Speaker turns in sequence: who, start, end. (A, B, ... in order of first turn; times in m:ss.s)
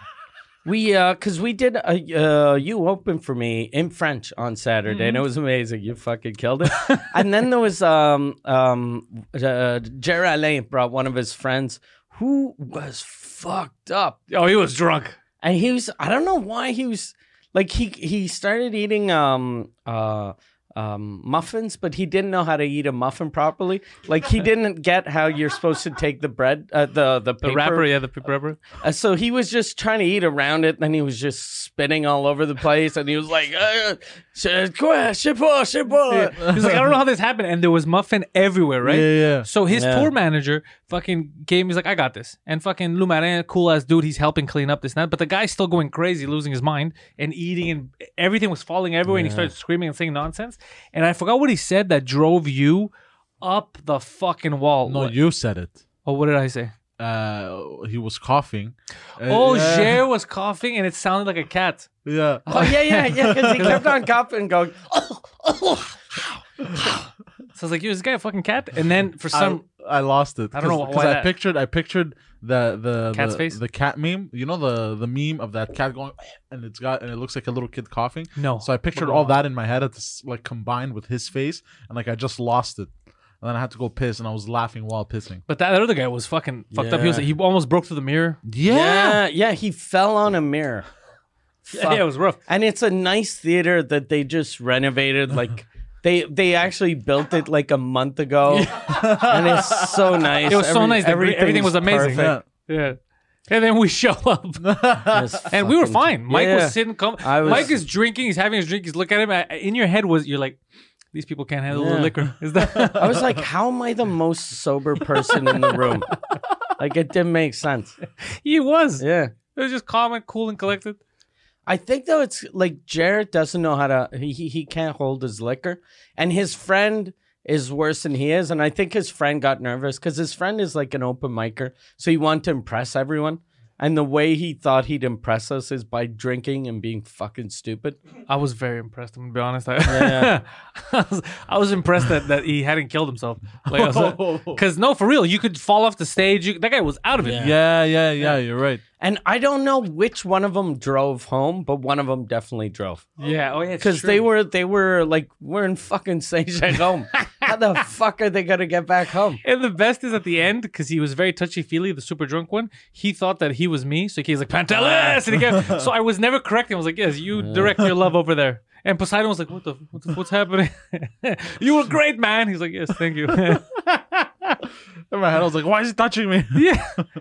0:00.6-0:14.2 A
0:04.9-0:05.2 B
0:14.3-0:15.2 B
0:15.4-0:27.9 A
0:27.4-0:28.6 B
0:28.7-0:36.7 A
0:36.1-0:55.2 B
0:38.8-0:39.5 C
0:39.7-0:40.1 A
0:49.1-0:49.5 A
0:54.9-0:55.8 C
0:56.0-0:56.7 B
0:57.0-1:00.1 C
0:59.2-1:01.9 B
1:02.0-1:03.8 C
1:02.5-1:05.9 A
1:07.5-1:09.6 B
1:09.3-1:22.9 C
1:10.5-1:11.3 B
1:13.1-1:13.6 B
1:18.4-1:19.3 B
1:23.4-1:25.4 C
1:25.5-1:28.4 B
1:26.7-1:27.2 A
1:28.4-1:29.2 C
1:28.7-1:30.8 A
1:31.6-1:42.4 A
1:31.7-1:32.4 B
1:38.8-1:40.1 C
1:40.5-1:44.8 B
1:42.1-1:42.4 C
1:44.6-1:45.4 C
1:45.1-1:47.8 A
1:45.5-1:50.6 B
1:47.5-1:47.8 C
1:51.1-1:53.2 B
1:51.7-1:52.1 A
1:52.8-1:53.0 C
1:52.9-1:56.2 A
1:56.8-1:58.0 A
1:58.2-2:01.0 B
1:59.0-1:59.3 A
2:01.6-2:18.0 A
2:18.3-2:27.5 B
2:19.8-2:20.4 A
2:23.7-2:24.6 C
2:27.2-2:27.5 A
2:27.3-2:28.8 C
2:29.0-2:33.0 A
2:33.2-2:34.2 B
2:33.8-2:39.4 A
2:39.4-2:54.5 B
2:44.7-2:45.2 A
2:45.4-2:45.8 C
2:47.4-2:47.7 A
2:55.1-2:56.8 C
2:56.5-2:57.0 B